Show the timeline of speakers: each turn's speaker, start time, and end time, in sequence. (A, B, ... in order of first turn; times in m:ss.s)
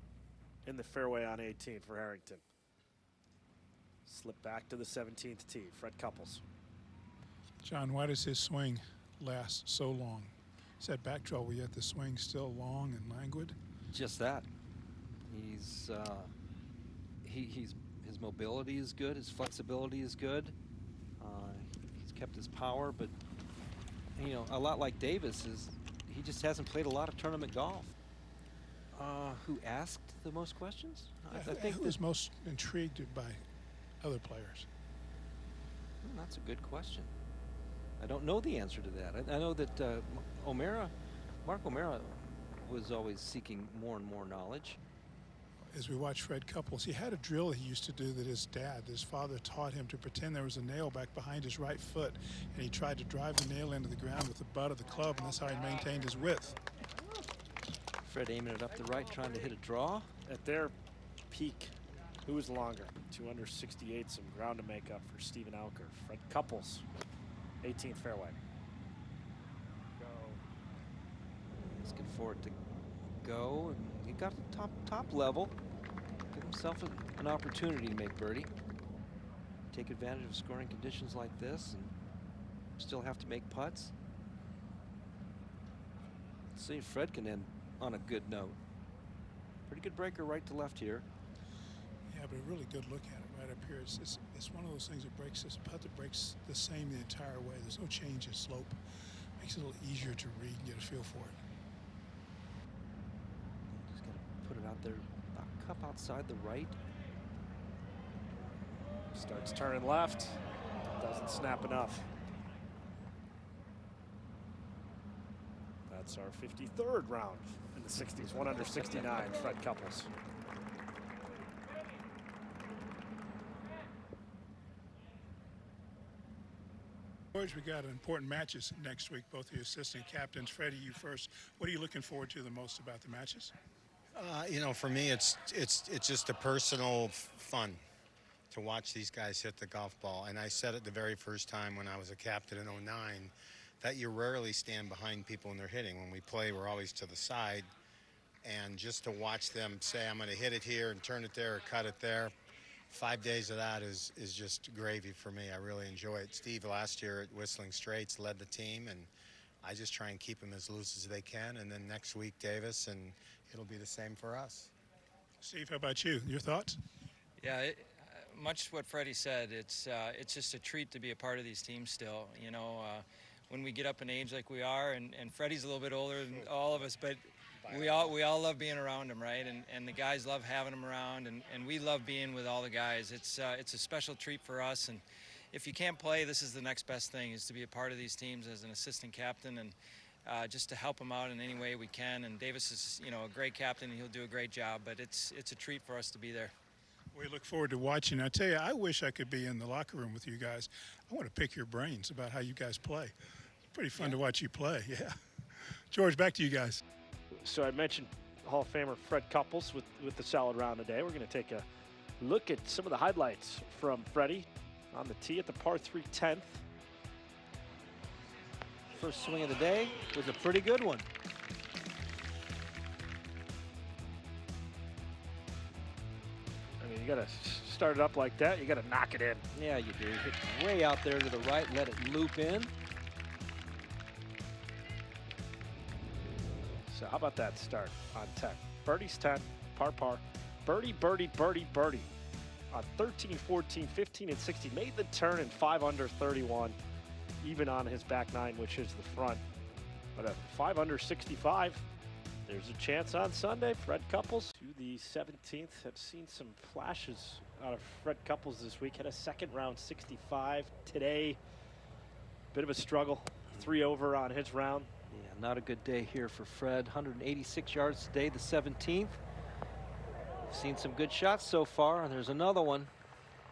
0:00.6-0:02.4 A
0:04.0-0:06.4 A
0:07.6-0:13.6 B
0:13.9-0:14.5 C
0:15.2-0:16.3 C
0:17.2-0:20.5 C
0:21.2-0:23.2 C
0:24.2-0:27.9 C
0:28.9-0:32.0 C
0:31.3-0:33.4 B
0:34.0-0:34.7 B
0:36.0-0:37.1 C
0:38.0-0:40.9 C
0:41.4-0:44.8 C
0:45.7-0:56.6 B
0:58.0-1:00.1 C
1:00.2-1:00.7 A
1:01.3-1:01.7 A
1:02.2-1:06.8 A
1:07.6-1:08.4 A
1:10.0-1:10.4 A
1:11.6-1:15.6 C
1:16.3-1:18.5 C
1:19.7-1:21.9 C
1:22.8-1:23.9 C
1:26.5-1:28.6 C
1:29.7-1:31.0 C
1:32.1-1:38.8 B
1:39.4-1:41.4 B
1:43.7-1:46.8 C
1:49.1-1:50.4 A
1:51.0-1:52.1 A
1:55.9-2:00.1 A
2:07.3-2:13.5 B
2:14.1-2:17.8 D
2:18.5-2:27.7 D
2:28.4-2:32.3 D
2:32.9-2:39.1 D
2:39.6-2:44.7 D
2:45.4-2:46.8 B
2:47.4-3:09.7 E
2:56.3-2:56.8 D
2:57.6-2:58.1 D
3:10.2-3:16.5 E
3:17.1-3:23.1 B
3:23.7-3:26.8 B
3:27.4-3:31.6 A
3:32.2-3:36.6 A
3:39.0-3:41.1 C
3:46.8-3:49.4 A
3:49.5-3:52.7 C
3:56.8-4:02.1 A
4:02.7-4:06.8 A
4:07.4-4:09.4 A
4:10.1-4:11.8 A
4:12.4-4:21.4 A
4:22.5-4:24.9 A
4:25.1-4:29.2 C
4:30.4-4:32.9 C